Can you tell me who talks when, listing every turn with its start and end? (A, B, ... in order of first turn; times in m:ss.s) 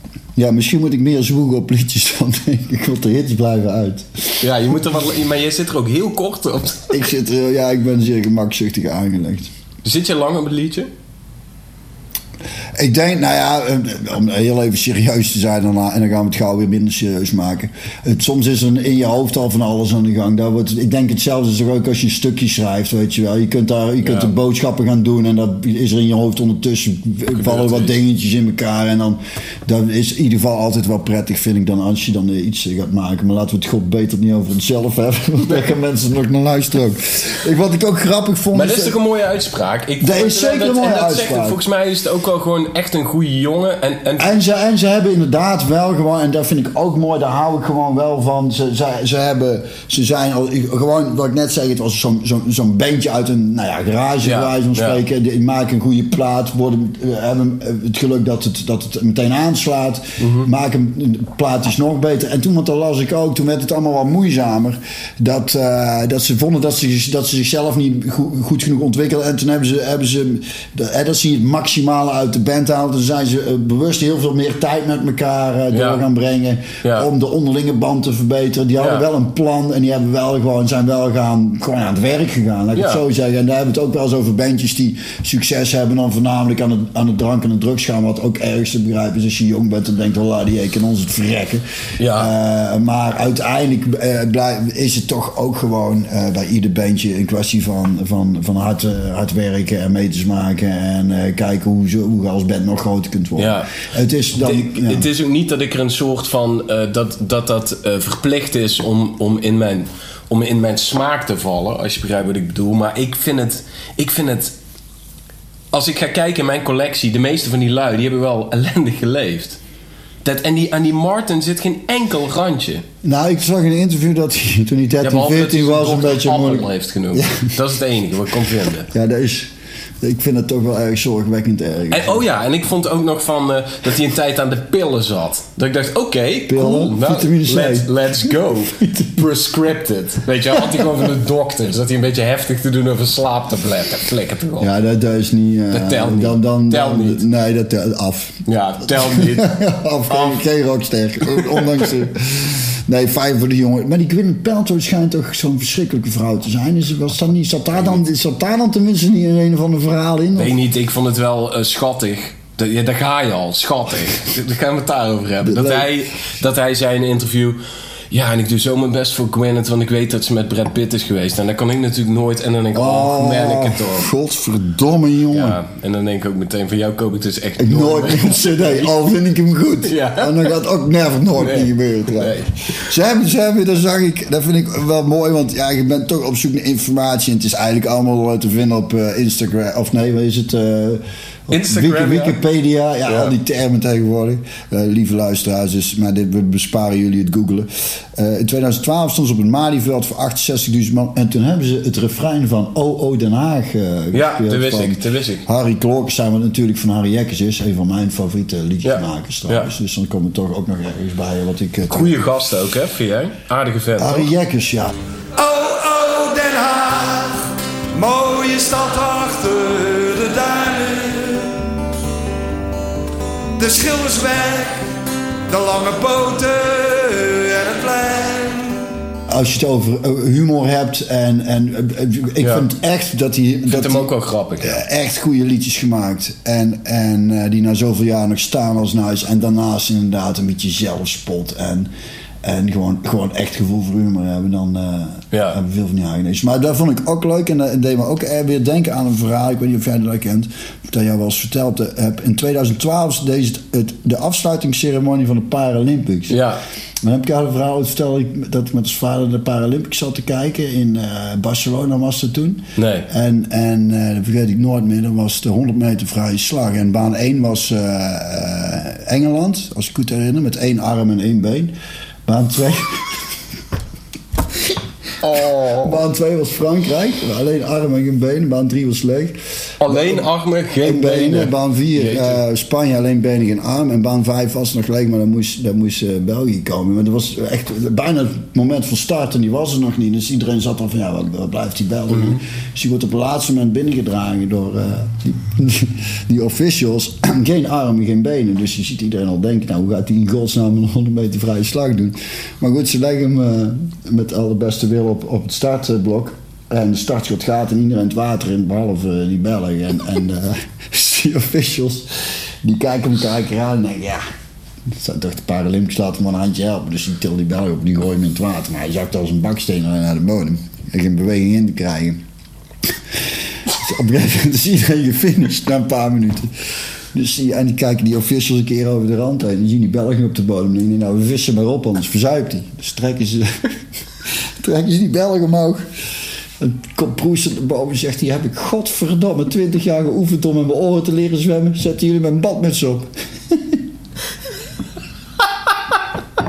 0:00.4-0:04.5 A
0:04.4-0:07.0 B
0:06.9-0:09.5 A
0:09.8-0:10.9 B
0:12.8-0:39.0 A
0:24.0-0:24.3 B
0:27.3-0:28.0 B
0:38.5-0:44.4 B
0:40.0-0:41.6 A
0:44.2-1:45.1 A
0:54.2-0:55.0 B
1:00.2-1:00.5 B
1:15.7-1:16.0 B
1:16.8-1:17.1 B
1:18.8-1:19.1 B
1:22.8-1:23.0 B
1:32.0-1:32.3 B
1:43.4-1:43.8 B
1:44.4-1:54.6 B
1:55.7-1:59.6 B
2:00.2-2:02.8 B
2:03.0-2:07.5 A
2:05.0-2:08.9 B
2:08.9-2:12.2 A
2:11.9-2:24.7 B
2:16.5-2:19.3 A
2:20.5-2:21.1 A
2:24.6-2:40.6 A
2:25.7-2:27.2 B
2:28.5-2:29.6 B
2:30.1-2:30.4 B
2:31.2-2:31.8 B
2:40.4-2:54.1 B
2:45.4-2:45.9 A
2:52.7-2:55.6 A
2:55.3-2:59.0 B
2:57.6-3:32.2 A
2:59.8-3:00.5 B
3:01.4-3:02.9 B
3:11.5-3:12.4 B
3:13.0-3:13.3 B
3:24.1-3:25.5 B
3:28.8-3:29.7 B
3:31.9-3:34.3 B
3:34.0-3:35.0 A
3:35.4-3:41.6 C
3:43.6-3:48.9 C
3:49.3-3:54.1 A
3:52.4-3:52.7 B
3:53.7-3:54.8 B
3:54.6-4:01.9 A
4:02.4-4:16.4 A
4:05.3-4:05.6 B
4:16.3-4:16.6 B
4:17.0-4:31.7 A
4:22.8-4:23.1 B
4:32.3-4:33.4 A
4:35.2-4:36.0 B
4:35.7-4:40.3 A
4:39.8-4:42.4 B
4:40.8-5:14.2 A
4:52.1-4:52.4 B
5:14.9-5:22.2 A
5:23.1-5:26.5 A
5:27.1-5:33.7 A
5:34.6-5:35.8 A
5:36.6-5:43.8 A